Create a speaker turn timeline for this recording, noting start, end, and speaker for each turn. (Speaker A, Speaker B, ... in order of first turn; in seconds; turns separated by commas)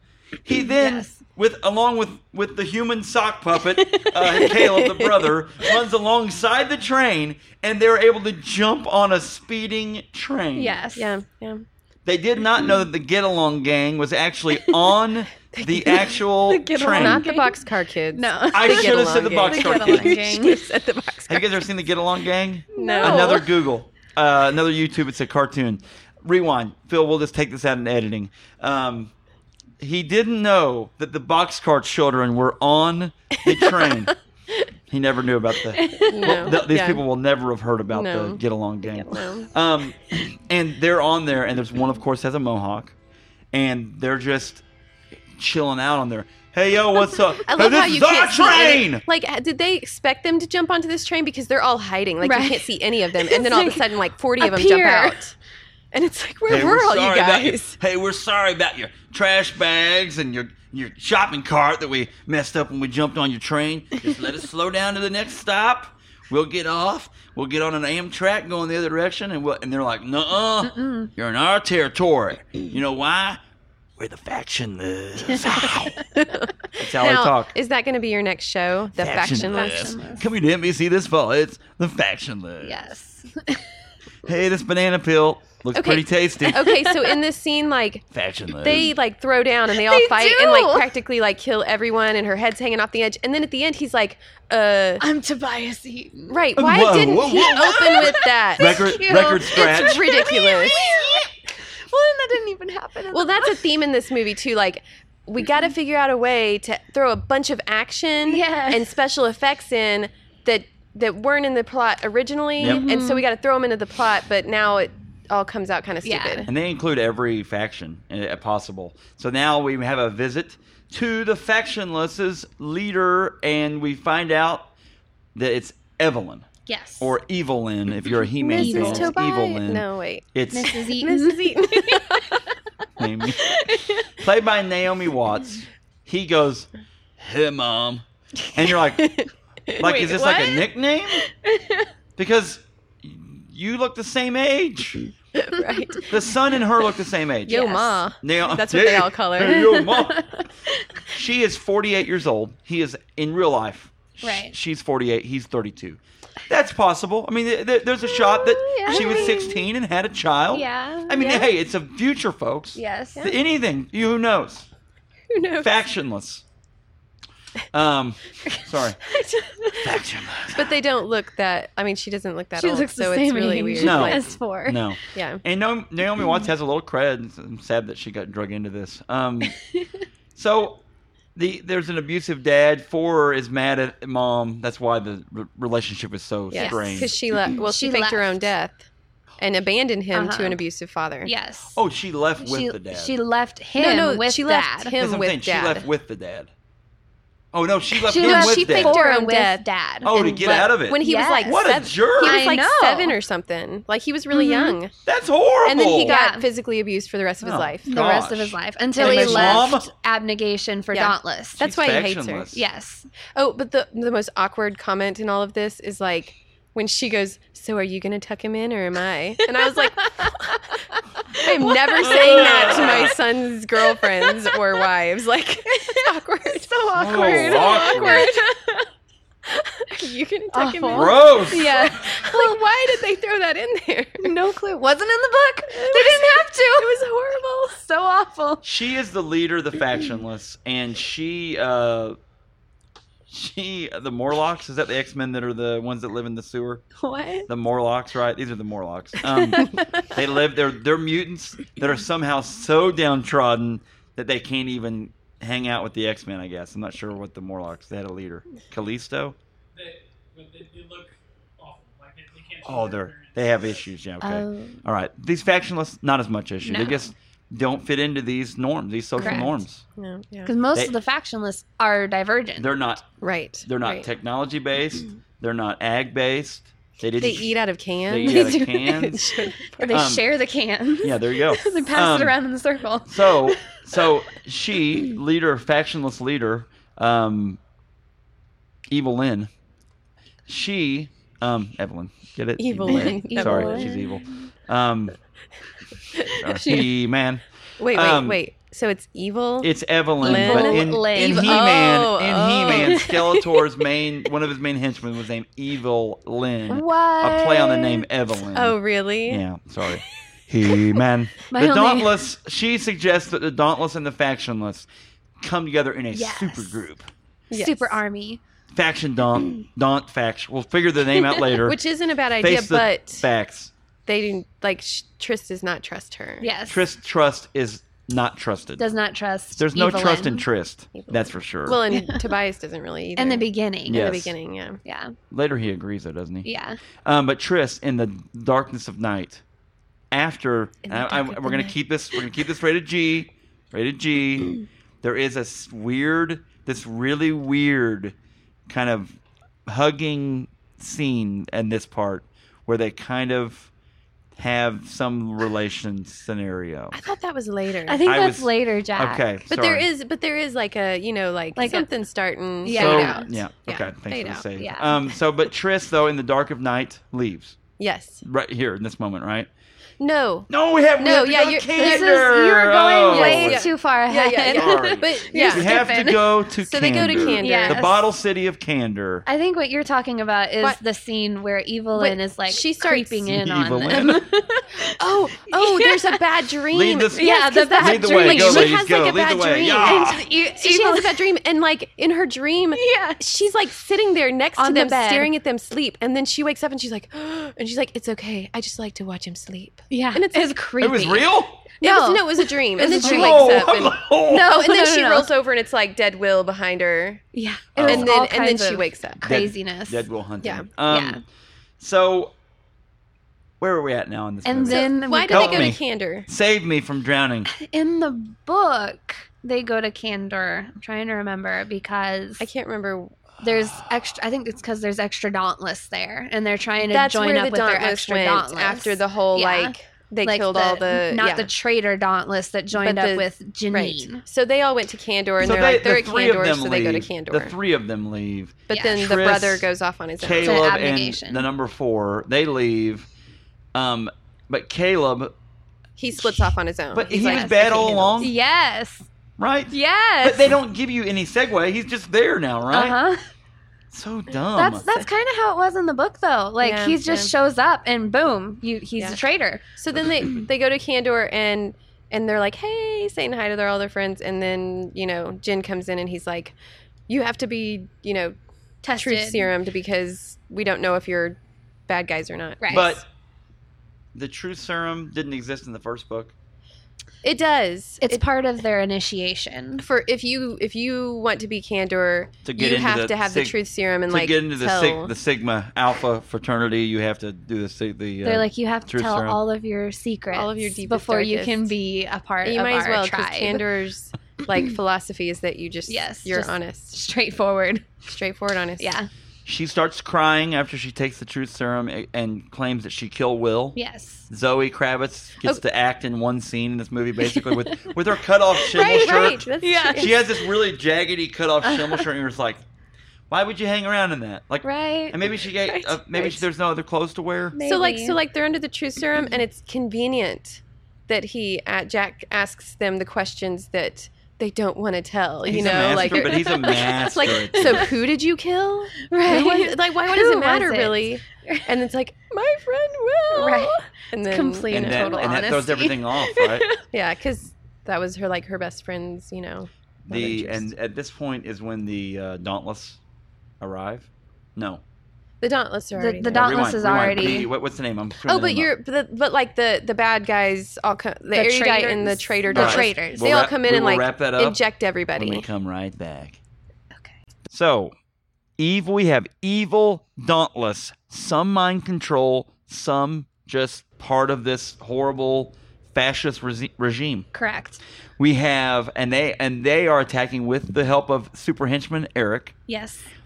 Speaker A: 0.4-10.8, Speaker B: 0.6-1.2, Speaker C: 4.0-5.3, Speaker B: 10.5-11.2, Speaker C: 10.9-11.6, Speaker A: 12.0-17.2, Speaker C: 15.5-16.1, Speaker B: 16.5-17.6, Speaker C: 16.8-21.6, Speaker B: 18.1-20.6, Speaker A: 18.5-20.2, Speaker A: 21.3-29.1, Speaker B: 22.7-23.5, Speaker C: 22.8-23.5, Speaker A: 29.8-34.1, Speaker A: 34.9-42.9, Speaker B: 35.8-36.5, Speaker C: 36.0-37.0, Speaker C: 37.9-39.5, Speaker A: 43.5-44.6, Speaker A: 45.4-49.0, Speaker C: 47.5-55.3, Speaker B: 52.2-53.9, Speaker B: 54.4-55.2, Speaker C: 55.9-57.8, Speaker A: 56.5-73.4, Speaker B: 70.7-71.1, Speaker A: 74.0-76.0, Speaker C: 76.2-80.0, Speaker A: 76.8-77.5, Speaker A: 79.0-82.8, Speaker B: 79.3-80.2, Speaker B: 82.6-83.7, Speaker A: 84.2-86.6, Speaker C: 85.7-95.0, Speaker B: 86.5-87.2, Speaker A: 88.1-88.9, Speaker B: 89.7-90.9, Speaker B: 95.0-96.4, Speaker C: 96.3-100.9, Speaker A: 96.5-100.1, Speaker B: 97.2-103.7, Speaker A: 100.7-101.2, Speaker C: 103.1-116.5, Speaker B: 108.3-108.9, Speaker B: 112.6-113.2, Speaker B: 116.0-116.5, Speaker A: 116.5-124.7, Speaker A: 125.3-126.5, Speaker B: 126.7-127.1, Speaker A: 127.0-130.8, Speaker C: 128.4-132.4, Speaker B: 128.5-129.6, Speaker B: 130.5-132.4, Speaker A: 133.0-133.6, Speaker B: 133.4-134.1, Speaker A: 134.1-139.2, Speaker C: 139.0-140.7, Speaker A: 139.8-141.2, Speaker B: 141.4-141.9, Speaker A: 142.2-145.0, Speaker C: 145.3-146.1, Speaker A: 146.1-150.3, Speaker C: 147.4-150.0, Speaker B: 147.5-148.0, Speaker B: 149.6-150.9, Speaker A: 151.1-164.7, Speaker B: 154.2-154.5, Speaker B: 158.3-159.6, Speaker C: 158.8-159.5, Speaker B: 160.5-161.5, Speaker B: 162.7-163.3, Speaker C: 165.3-165.7, Speaker A: 165.6-166.4, Speaker A: 167.7-169.0, Speaker C: 169.1-169.8, Speaker A: 169.8-170.7, Speaker C: 170.5-174.3, Speaker B: 172.6-174.8, Speaker A: 173.8-179.6, Speaker C: 175.1-175.4, Speaker A: 180.3-180.8, Speaker A: 181.3-187.1, Speaker C: 186.5-188.8, Speaker B: 186.5-188.5, Speaker C: 189.4-191.3, Speaker B: 190.1-190.6, Speaker B: 191.2-191.8, Speaker A: 191.8-193.1, Speaker B: 192.4-194.9, Speaker C: 193.8-195.9, Speaker A: 195.0-196.5, Speaker A: 197.5-199.0, Speaker B: 198.0-201.6, Speaker C: 198.1-204.9, Speaker A: 200.0-202.4, Speaker B: 202.2-203.2, Speaker B: 204.3-204.8, Speaker A: 205.1-206.1, Speaker C: 205.6-208.0, Speaker B: 206.0-206.4, Speaker A: 207.4-209.9, Speaker B: 207.8-211.6, Speaker C: 208.9-209.7, Speaker C: 210.9-212.5, Speaker A: 211.6-212.6, Speaker B: 212.5-213.1, Speaker C: 213.3-220.7, Speaker B: 219.6-222.7, Speaker C: 221.3-228.5, Speaker A: 222.0-223.2, Speaker B: 223.8-224.6, Speaker B: 225.7-228.8, Speaker A: 226.9-228.3, Speaker C: 229.4-234.3, Speaker B: 230.5-232.6, Speaker A: 230.9-231.9, Speaker B: 234.2-236.9, Speaker C: 235.7-237.8, Speaker B: 237.8-238.6, Speaker A: 238.6-242.2, Speaker A: 243.3-246.8, Speaker B: 247.0-247.5, Speaker A: 247.5-259.4, Speaker B: 249.2-249.7, Speaker D: 259.7-263.8, Speaker A: 262.6-269.8, Speaker B: 264.2-264.8, Speaker B: 266.6-267.1, Speaker C: 269.2-270.5, Speaker B: 269.2-269.5, Speaker B: 270.4-272.7, Speaker A: 272.6-273.1, Speaker C: 273.2-274.1, Speaker A: 273.6-277.5, Speaker C: 277.2-280.0, Speaker A: 278.1-279.2, Speaker B: 278.2-279.1, Speaker B: 279.6-283.8, Speaker A: 279.9-280.2, Speaker A: 281.0-282.4, Speaker A: 283.1-287.6, Speaker A: 288.9-289.5, Speaker A: 290.5-295.1, Speaker C: 292.6-294.0, Speaker B: 292.9-294.1, Speaker C: 296.1-296.9, Speaker A: 296.3-298.4, Speaker C: 297.8-303.4, Speaker A: 299.6-314.9, Speaker B: 300.2-301.6, Speaker B: 306.7-308.0, Speaker C: 308.5-309.4, Speaker B: 311.5-312.2, Speaker A: 315.4-317.1, Speaker B: 316.1-316.8, Speaker C: 317.5-318.0, Speaker B: 317.5-318.4, Speaker A: 318.7-321.8, Speaker C: 321.6-323.3, Speaker A: 322.4-323.7, Speaker C: 324.1-326.5, Speaker B: 326.4-326.9, Speaker A: 326.7-328.8, Speaker B: 328.8-330.4, Speaker A: 329.6-331.8, Speaker C: 329.9-330.3, Speaker C: 330.9-334.8, Speaker B: 331.9-332.2, Speaker B: 333.2-334.0, Speaker A: 333.9-334.3, Speaker B: 334.8-335.1, Speaker A: 335.3-336.5, Speaker B: 336.4-336.8, Speaker A: 337.0-339.4, Speaker A: 340.1-348.1, Speaker C: 340.9-341.7, Speaker A: 348.7-353.7, Speaker A: 354.4-357.0, Speaker C: 356.9-358.0, Speaker B: 357.9-359.2, Speaker A: 358.1-359.9, Speaker C: 359.5-364.4, Speaker B: 361.6-361.9, Speaker B: 362.6-363.3, Speaker A: 362.7-367.6, Speaker B: 364.6-365.0, Speaker C: 367.8-368.2, Speaker A: 368.2-369.5, Speaker C: 370.0-372.3, Speaker A: 370.5-373.7, Speaker B: 371.8-376.2, Speaker C: 373.0-377.9, Speaker A: 374.5-379.2, Speaker B: 377.2-378.0, Speaker B: 379.2-386.2, Speaker C: 381.9-383.4, Speaker A: 383.3-384.2, Speaker C: 384.8-400.5, Speaker A: 386.7-390.2, Speaker B: 387.1-388.8, Speaker B: 389.8-391.2, Speaker B: 392.7-393.2, Speaker B: 394.6-395.3, Speaker B: 399.9-401.3, Speaker A: 400.8-401.6, Speaker B: 401.8-403.7, Speaker C: 401.8-407.2, Speaker A: 402.9-404.5, Speaker B: 404.3-405.3, Speaker B: 407.3-410.0, Speaker A: 407.7-408.1, Speaker C: 407.8-409.2, Speaker A: 409.2-411.2, Speaker C: 410.4-410.7, Speaker B: 410.9-411.2, Speaker A: 411.8-412.3, Speaker A: 413.6-417.5, Speaker B: 414.4-415.7, Speaker C: 414.7-416.3, Speaker B: 417.5-422.5, Speaker C: 422.4-423.1, Speaker B: 423.4-434.2, Speaker C: 426.9-431.5, Speaker C: 432.7-437.5, Speaker A: 435.4-439.7, Speaker C: 438.7-440.6, Speaker B: 438.7-439.0, Speaker A: 440.2-443.1, Speaker B: 440.4-441.5, Speaker A: 443.7-445.3, Speaker C: 446.0-448.3, Speaker A: 446.2-448.3, Speaker B: 447.1-447.5, Speaker B: 448.2-449.1, Speaker A: 449.4-453.0, Speaker B: 449.7-450.5, Speaker B: 452.7-453.2, Speaker A: 453.9-454.9, Speaker B: 454.5-459.6, Speaker C: 456.6-457.3, Speaker C: 459.8-466.5, Speaker C: 467.1-468.3, Speaker B: 468.8-469.5, Speaker C: 468.9-473.0, Speaker B: 472.6-472.9, Speaker A: 472.7-473.0, Speaker A: 474.1-476.3, Speaker C: 477.2-478.2, Speaker B: 478.0-479.8, Speaker C: 479.8-485.1, Speaker A: 482.4-483.6, Speaker A: 484.1-489.4, Speaker B: 488.2-493.6, Speaker C: 490.3-491.7, Speaker C: 492.4-496.9, Speaker B: 495.9-497.9, Speaker C: 498.1-498.9, Speaker B: 498.8-499.1, Speaker A: 499.4-512.6, Speaker B: 503.7-504.3, Speaker B: 507.2-507.9, Speaker B: 508.6-510.1, Speaker C: 508.7-510.2, Speaker B: 511.6-512.0, Speaker A: 513.3-517.6, Speaker B: 514.6-515.2, Speaker C: 515.7-516.4, Speaker B: 517.5-518.2, Speaker C: 517.6-535.6, Speaker A: 525.5-527.9, Speaker B: 526.0-527.0, Speaker B: 529.0-531.6, Speaker B: 533.3-536.8, Speaker A: 534.7-536.6, Speaker C: 536.9-540.7, Speaker A: 540.1-543.0, Speaker A: 543.6-544.8, Speaker C: 545.4-547.4, Speaker B: 546.0-547.5, Speaker A: 546.3-548.7, Speaker C: 548.2-555.5, Speaker B: 551.3-553.2, Speaker A: 552.5-554.6, Speaker A: 555.1-556.4, Speaker A: 557.5-557.9, Speaker A: 558.6-567.3, Speaker B: 567.3-567.8, Speaker A: 568.2-572.5, Speaker B: 572.7-573.1